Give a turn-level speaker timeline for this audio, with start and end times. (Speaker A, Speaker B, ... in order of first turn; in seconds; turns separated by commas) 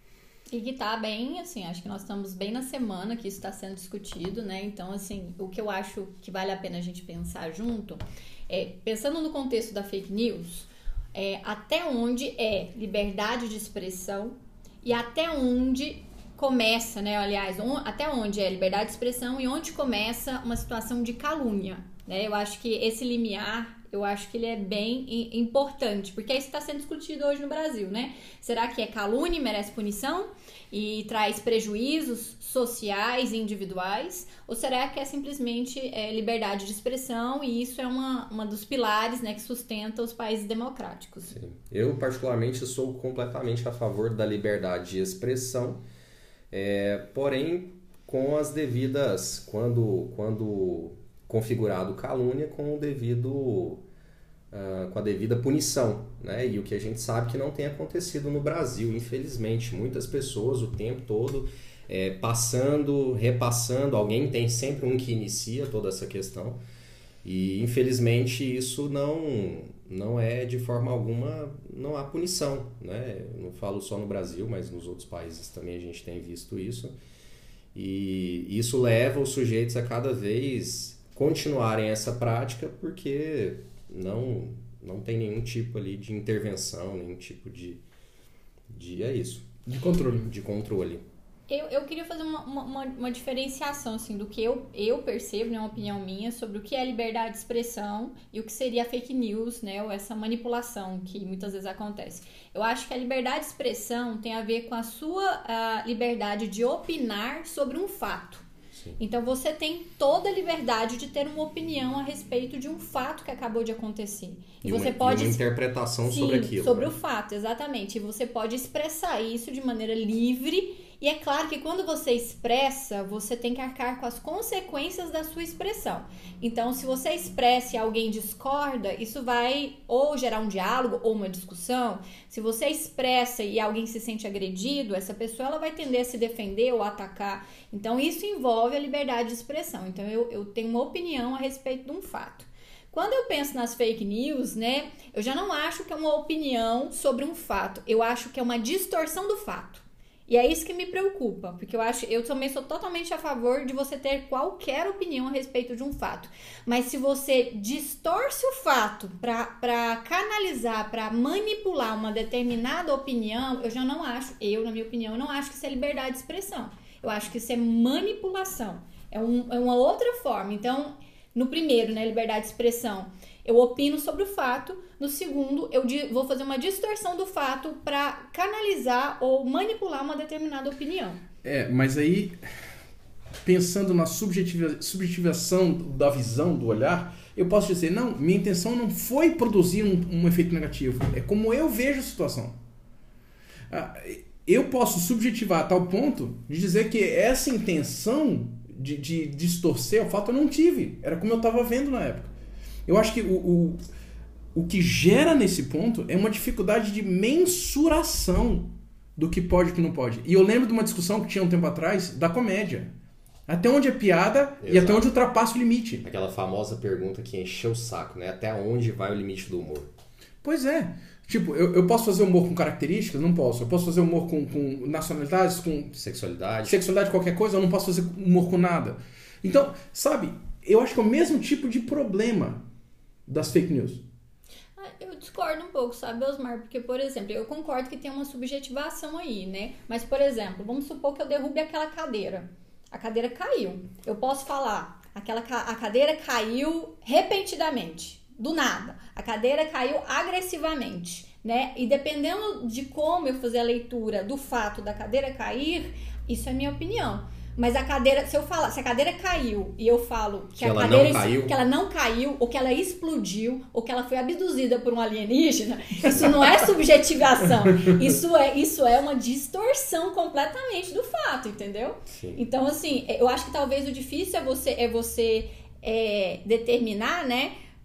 Speaker A: 0.5-41.4, Speaker B: 41.3-45.8, Speaker B: 46.5-53.8, Speaker B: 54.5-66.6, Speaker B: 67.2-76.9, Speaker B: 77.7-87.8, Speaker B: 88.7-89.5, Speaker C: 89.7-90.3, Speaker B: 90.3-91.0, Speaker A: 91.5-108.4, Speaker A: 109.0-115.4, Speaker B: 114.6-116.9, Speaker A: 116.0-181.2, Speaker C: 181.4-182.4, Speaker C: 183.4-192.6, Speaker C: 193.7-202.3, Speaker C: 202.9-203.8, Speaker C: 204.5-212.9, Speaker C: 213.5-216.0, Speaker B: 214.6-215.1, Speaker B: 216.0-219.9, Speaker C: 220.4-225.9, Speaker B: 225.9-226.8, Speaker C: 226.6-232.6, Speaker C: 233.3-234.0, Speaker A: 234.8-277.5, Speaker B: 260.6-261.6, Speaker B: 272.1-272.4